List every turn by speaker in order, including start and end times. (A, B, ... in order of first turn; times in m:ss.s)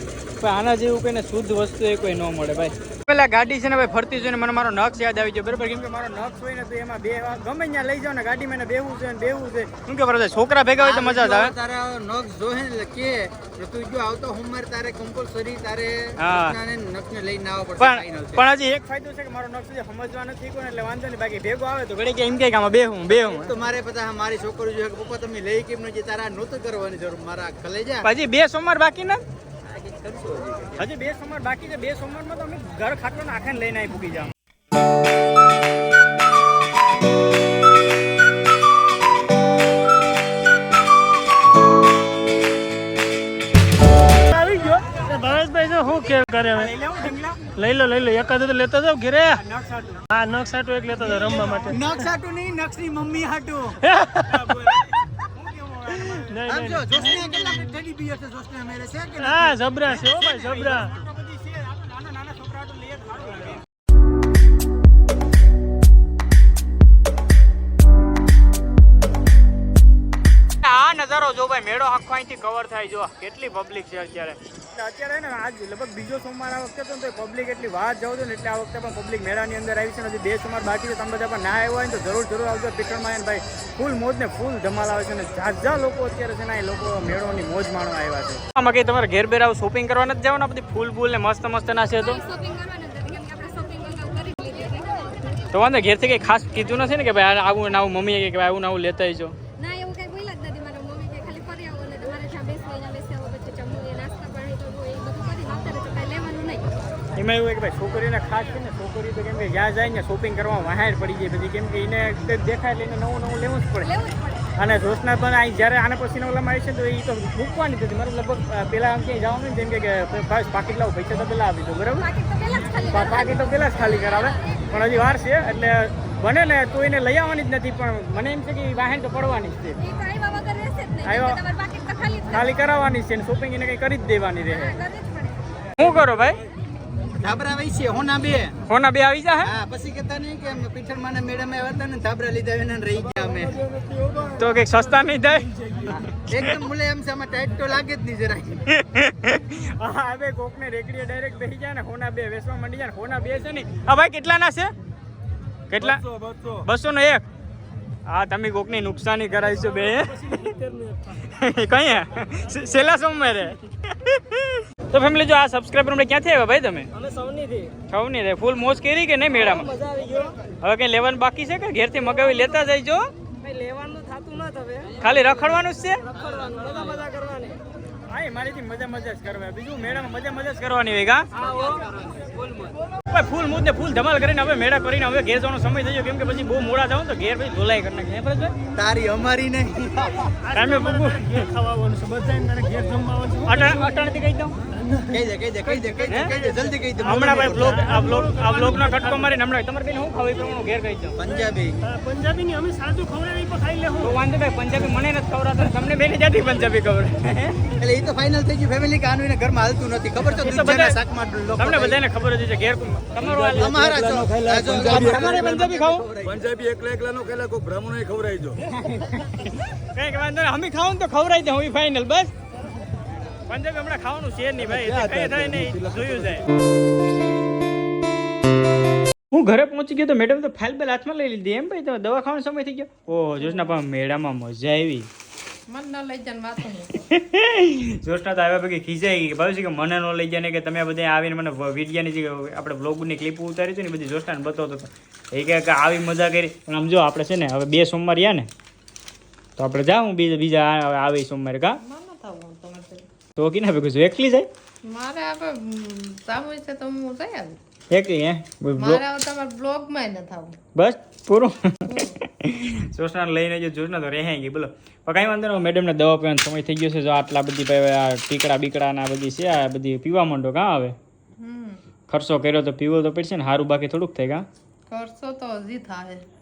0:00.4-0:11.5 A
0:10.8-0:18.4 B
0:16.2-0:16.6 A
0:17.8-0:23.6 A
0:23.1-0:28.1 B
0:28.0-0:29.2 A
0:29.6-0:30.8 B
0:30.8-0:34.3 A
0:44.2-0:46.7 C
0:46.5-0:47.4 A
0:47.6-0:49.4 C
0:49.4-0:50.0 A
0:50.1-0:51.8 C
0:51.2-0:51.7 A
0:51.6-0:53.8 B
0:53.9-0:54.4 C
0:54.2-0:56.3 A
0:56.1-0:57.3 C
0:56.4-0:59.6 B
0:59.2-1:01.0 C
0:59.9-1:03.6 A
1:10.6-1:32.2 A
1:32.0-1:35.4 D
1:35.5-1:39.4 A
1:39.6-1:46.7 D
1:47.2-1:53.9 A
1:53.8-1:54.5 D
1:54.6-2:02.0 A
2:02.0-2:04.6 D
2:02.9-2:09.8 A
2:09.8-2:12.6 D
2:11.0-2:11.4 A
2:12.3-2:14.7 A
2:14.5-2:15.4 D
2:15.8-2:16.4 A
2:17.2-2:18.6 B
2:18.7-2:19.5 A
2:19.4-2:23.6 B
2:24.3-2:26.5 A
2:26.3-2:28.7 B
2:28.7-2:34.7 A
2:35.7-2:36.0 A
2:36.6-2:37.2 A
2:38.0-2:46.9 A
2:47.9-2:53.1 A
2:54.9-2:56.1 A
2:58.1-3:01.8 A
3:03.1-3:08.5 A
3:08.7-3:10.3 B
3:10.4-3:14.1 C
3:10.5-3:11.4 A
3:13.4-3:14.5 A
3:14.8-3:15.1 C
3:15.1-3:17.8 B
3:15.7-3:16.2 C
3:16.1-3:16.3 A
3:17.0-3:19.3 C
3:17.0-3:21.2 A
3:21.2-3:21.8 B
3:21.8-3:24.2 C
3:24.0-3:27.8 A
3:27.8-3:32.0 B
3:30.2-3:31.0 A
3:31.6-3:33.9 A
3:33.2-3:35.3 E
3:33.5-3:36.4 B
3:34.8-3:36.0 A
3:36.4-3:38.6 E
3:38.7-3:42.3 A
3:43.5-3:46.4 A
3:45.0-3:45.7 E
3:49.3-3:55.1 A
3:53.4-3:53.7 F
3:55.7-3:57.0 F
3:57.0-4:08.5 A
4:09.6-4:11.8 A
4:11.8-4:13.0 F
4:13.4-4:14.5 A
4:14.8-4:17.6 F
4:17.9-4:19.0 A
4:18.8-4:20.6 F
4:20.8-4:31.0 A
4:21.8-4:22.2 F
4:31.4-4:31.8 F
4:32.1-4:34.4 A
4:34.9-4:36.2 F